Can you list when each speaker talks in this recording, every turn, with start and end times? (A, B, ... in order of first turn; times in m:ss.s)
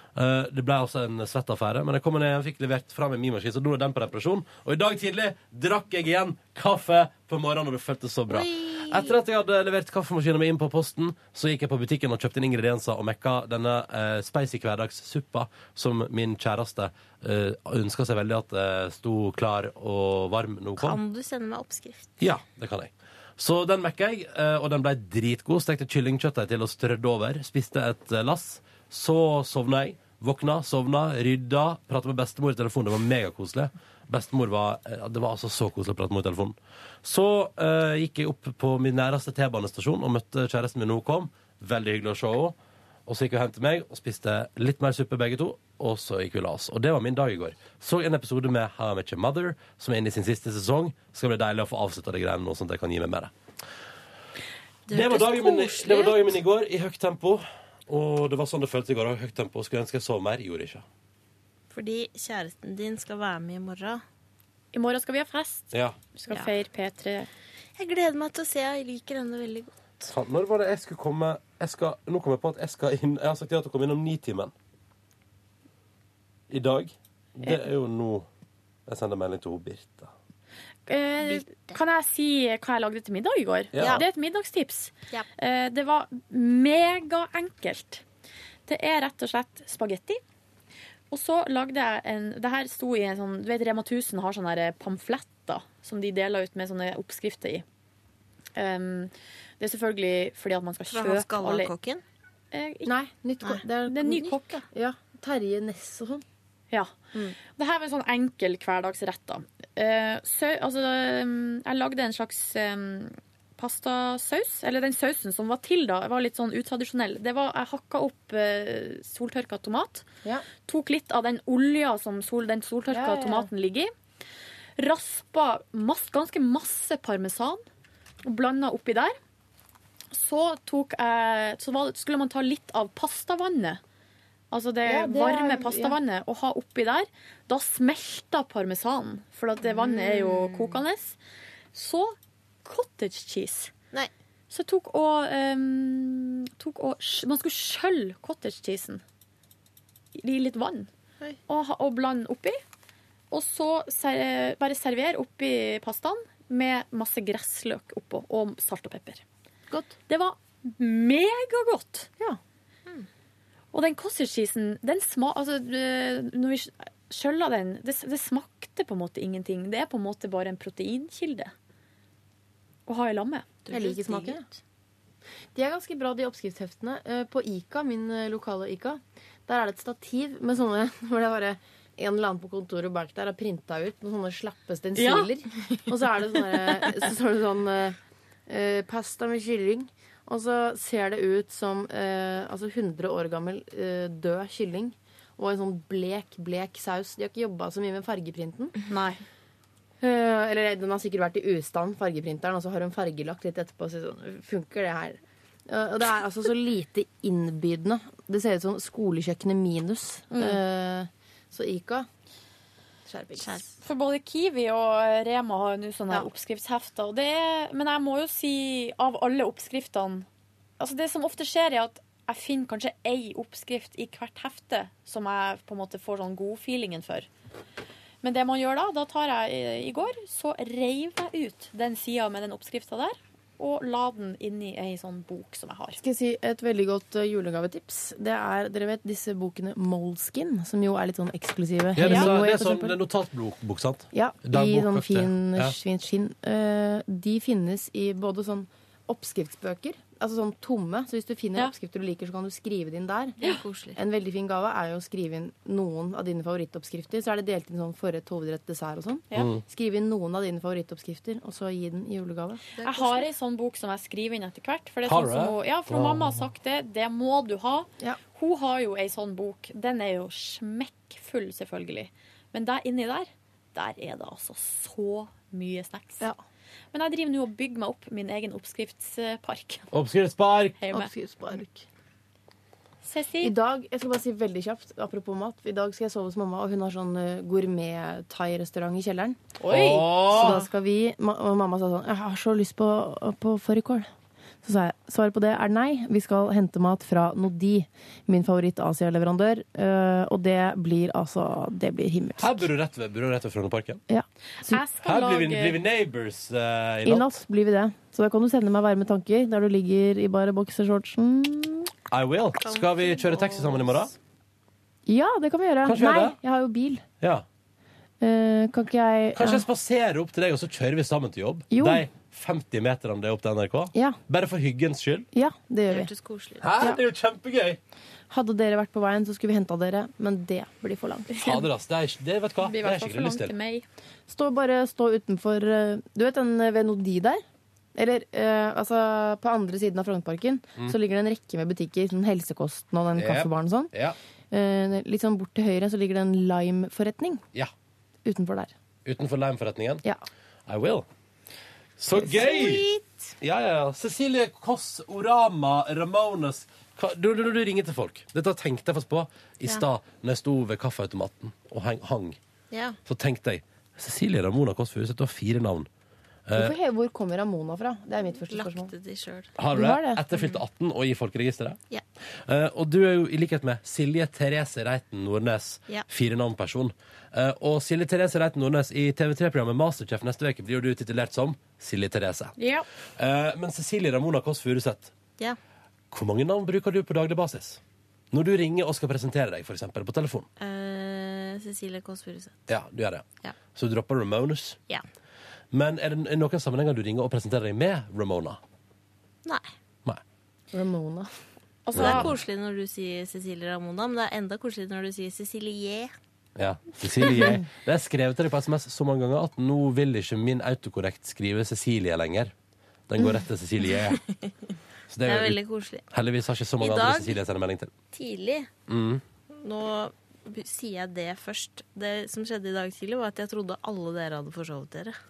0:00.2-0:21.0 A
0:08.3-0:09.2 B
0:20.8-0:22.1 B
0:22.2-0:42.6 A
0:43.1-0:53.3 A
0:54.9-0:56.4 B
0:54.9-1:00.8 A
1:01.7-1:04.0 B
1:04.7-1:07.3 C
1:06.3-1:06.5 B
1:07.8-1:10.1 B
1:10.1-1:14.5 A
1:16.5-1:18.3 A
1:18.9-1:20.1 A
1:20.9-1:28.0 C
1:21.2-1:21.8 B
1:23.8-1:24.0 A
1:23.8-1:24.1 B
1:28.7-1:30.2 C
1:31.1-1:37.6 C
1:38.6-1:41.7 C
1:40.9-1:42.0 B
1:42.5-1:42.9 C
1:42.9-1:46.2 D
1:43.9-1:44.6 C
1:46.7-2:00.0 C
2:00.6-2:03.9 C
2:02.9-2:03.5 D
2:04.8-2:07.6 C
2:08.2-2:09.2 C
2:10.1-2:13.8 C
2:14.5-2:21.2 C
2:14.9-2:16.0 D
2:19.6-2:20.8 B
2:21.7-2:23.7 C
2:24.5-2:29.0 C
2:30.2-2:30.9 C
2:31.5-2:32.6 C
2:33.3-2:39.2 C
2:40.1-2:42.1 C
2:43.7-2:51.5 C
2:52.9-2:53.5 C
2:53.6-2:54.6 B
2:53.7-2:54.5 D
2:55.5-3:08.0 D
3:05.0-3:05.8 C
3:08.5-3:18.8 D
3:18.9-3:19.2 C
3:20.0-3:32.1 D
3:30.3-3:30.6 C
3:33.1-3:33.6 D
3:33.4-3:33.8 B
3:33.8-3:40.3 C
3:40.8-3:47.3 C
3:48.2-3:56.0 C
3:56.0-4:03.0 D
4:02.0-4:05.7 A
4:02.0-4:02.3 C
4:04.1-4:13.4 D
4:13.4-4:14.0 B
4:14.0-4:22.6 D
4:19.4-4:19.6 A
4:22.8-4:23.3 B
4:22.8-4:36.2 C
4:25.1-4:26.4 A
4:36.9-4:39.9 C
4:39.9-4:40.8 A
4:40.8-4:41.1 C
4:41.0-4:41.8 D
4:43.0-4:43.5 C
4:43.4-4:49.4 D
4:49.6-4:50.3 C
4:49.7-4:50.6 A
4:50.2-4:54.1 D
4:54.6-5:02.6 D
5:02.4-5:04.0 A
5:04.1-5:04.8 D
5:04.6-5:05.8 C
5:05.0-5:07.3 A
5:07.0-5:11.9 D
5:12.1-5:14.1 A
5:12.6-5:14.1 B
5:15.1-5:17.0 D
5:15.9-5:16.4 A
5:18.2-5:19.6 D
5:19.4-5:25.3 A
5:21.7-5:22.0 D
5:24.0-5:24.2 D
5:25.3-5:26.1 D
5:25.9-5:26.9 B
5:26.6-5:27.8 A
5:28.3-5:31.3 D
5:31.4-5:33.5 A
5:32.6-5:33.8 C
5:34.3-5:37.4 D
5:38.0-5:43.9 D
5:43.2-5:44.2 A
5:44.5-5:47.4 D
5:48.2-5:48.7 D
5:49.0-5:50.0 A
5:50.7-5:51.1 A
5:52.0-5:52.8 A
5:52.3-5:53.3 B
5:53.4-6:02.4 A
6:02.7-6:03.0 B
6:03.1-6:05.9 A
6:06.5-6:06.8 A
6:06.6-6:08.9 D
6:08.4-6:09.5 B
6:09.6-6:11.8 A
6:09.7-6:10.2 D
6:12.5-6:22.6 A
6:22.6-6:22.9 C
6:23.2-6:25.1 A
6:26.1-6:27.8 A
6:28.3-6:30.5 A
6:30.6-6:32.6 B
6:32.7-6:34.8 A
6:35.7-6:38.6 A
6:40.7-6:41.3 D
6:41.8-6:42.3 C
6:42.0-6:42.3 A
6:42.0-6:46.1 B
6:46.6-6:52.5 A
6:53.1-6:54.2 A
6:55.1-6:57.9 A
6:55.2-6:56.0 B
6:56.8-6:57.4 B
6:58.1-6:58.7 B
6:58.9-6:59.2 A
6:59.6-7:05.2 B